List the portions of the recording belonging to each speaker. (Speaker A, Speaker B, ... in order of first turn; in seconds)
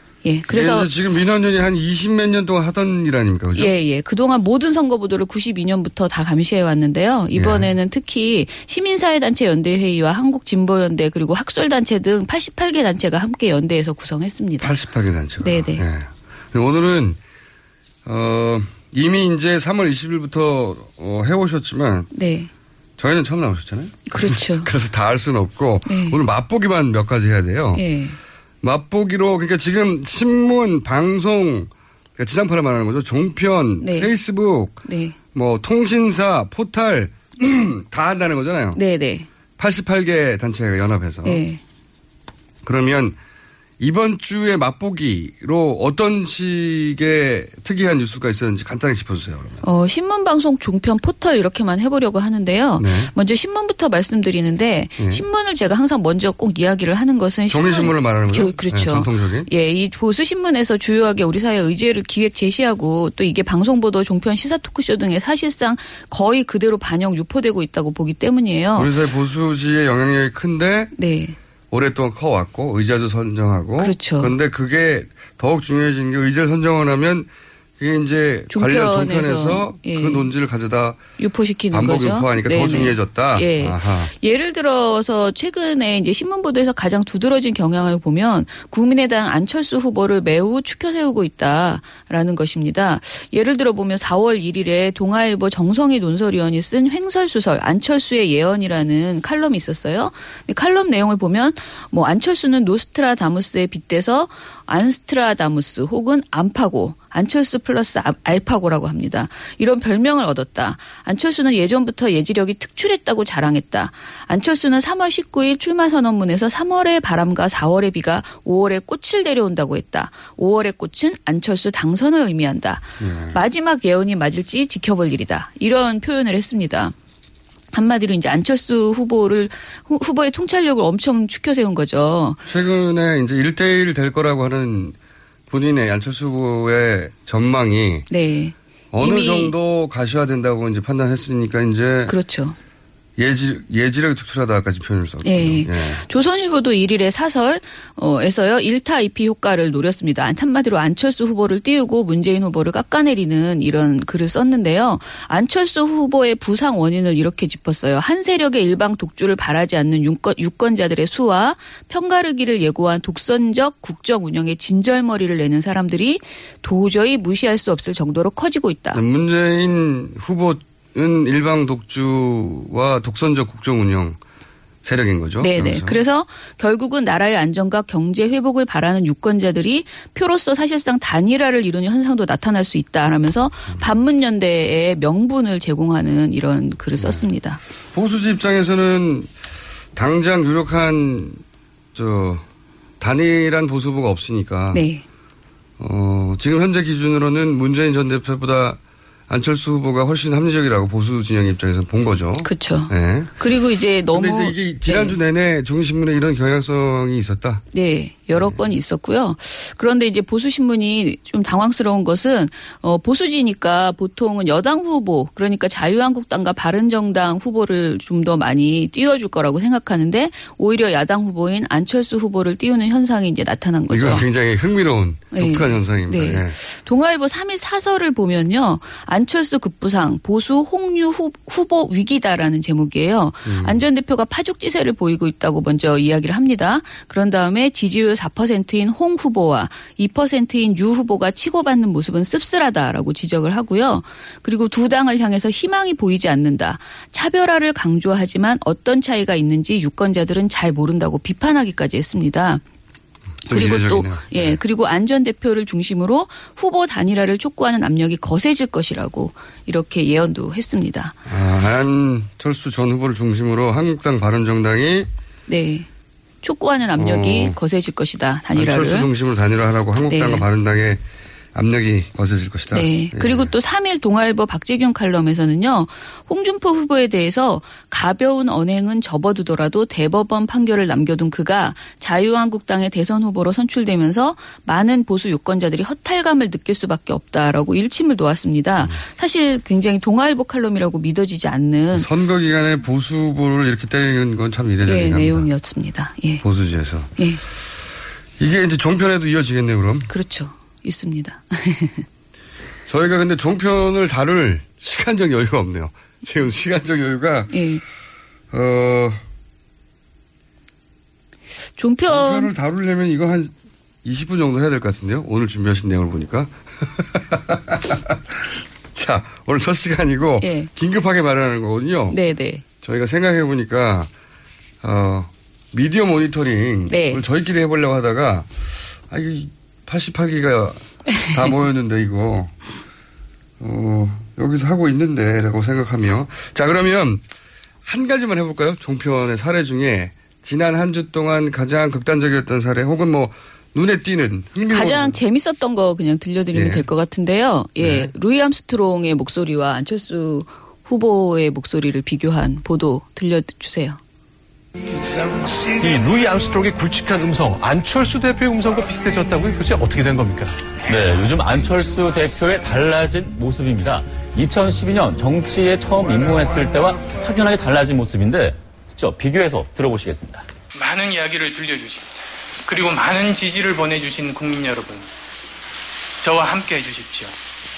Speaker A: 0.2-0.9, 3.6-14.7, 15.4-15.8, 22.1-22.5, 24.1-24.7, 25.9-26.2, 27.7-28.2, 33.8-34.1, 34.8-35.1, 38.7-39.3, 41.2-41.6, 49.6-68.9, 71.0-71.4, 73.8-74.3, 78.5-80.3, 81.2-126.9, 127.7-132.4, 138.1-139.5, 142.1-142.6, 145.2-169.0, 175.4-187.6, 194.7-195.0, 202.4-205.2, 207.7-224.3, 225.3-252.6, 253.5-261.2, 265.5-265.9, 266.4-269.1, 270.1-270.4, 272.7-292.1, 294.9-296.4, 300.1-302.1, 307.5-307.8, 311.8-312.5, 320.4-320.7, 322.1-322.6, 326.9-327.2, 344.7-354.0
Speaker B: 0.5-3.7, 7.3-7.7, 14.6-17.2, 18.1-22.1, 23.0-27.8, 28.6-34.8, 35.3-38.8, 39.6-41.4, 42.6-43.1, 43.8-49.6, 52.8-53.1, 55.0-55.2, 57.5-59.5, 68.7-70.9, 71.7-77.3, 77.8-81.0, 81.7-84.1, 123.0-123.4, 132.4-134.9, 135.5-138.1, 138.9-142.1, 143.2-146.0, 168.9-174.2, 174.8-176.0, 187.0-187.2, 187.9-189.3, 189.9-191.4, 191.9-192.4, 193.0-194.8, 195.8-198.8, 199.3-203.5, 204.1-207.6, 208.3-208.6, 223.9-226.6, 233.4-233.8, 253.5-254.6, 261.2-265.1, 266.9-267.6, 268.6-271.0, 271.6-273.5, 291.9-295.5, 296.4-297.1, 298.4-300.1, 302.9-307.6, 308.5-309.2, 312.0-313.5, 314.0-318.2, 318.9-322.2, 322.8-324.1, 324.8-328.5, 329.1-332.5, 333.6-337.2, 337.9-345.2, 346.5-346.9, 347.8-348.1
Speaker C: 355.1-360.7
Speaker D: 360.8-370.5
Speaker E: 370.8-372.1, 372.6-375.1, 376.2-377.3